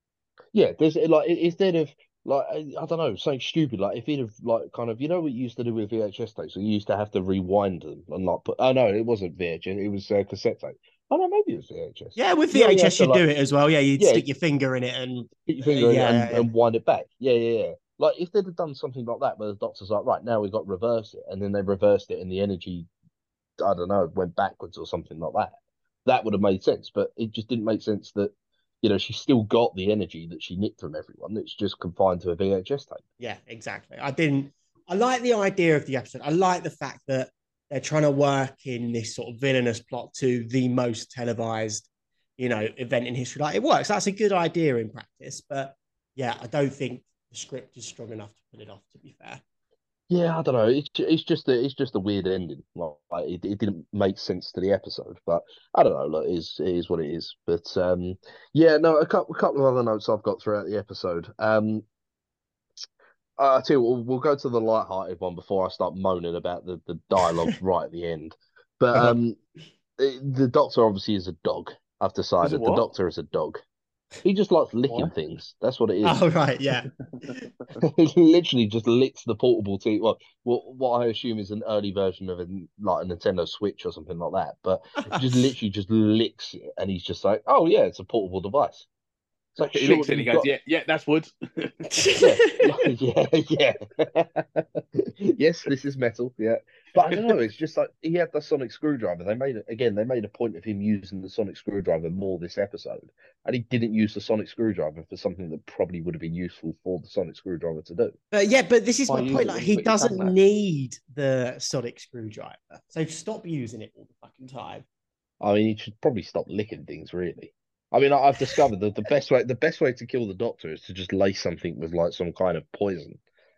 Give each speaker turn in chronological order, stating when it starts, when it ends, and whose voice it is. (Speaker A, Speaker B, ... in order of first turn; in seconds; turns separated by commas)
Speaker A: 0.5-13.2, Speaker B: 12.2-16.5, Speaker A: 14.0-14.2, Speaker A: 15.5-22.9, Speaker A: 23.6-33.0, Speaker B: 33.2-41.9, Speaker B: 42.4-49.4, Speaker A: 50.1-61.9, Speaker A: 63.4-69.4, Speaker A: 70.0-73.6, Speaker C: 72.4-72.8, Speaker A: 74.2-76.2, Speaker B: 76.0-77.5, Speaker A: 77.8-88.9, Speaker B: 85.1-85.4, Speaker A: 89.6-90.5, Speaker C: 89.7-91.8, Speaker B: 91.9-92.9, Speaker A: 92.2-108.2, Speaker B: 108.3-114.8, Speaker C: 109.1-110.3, Speaker A: 115.4-123.2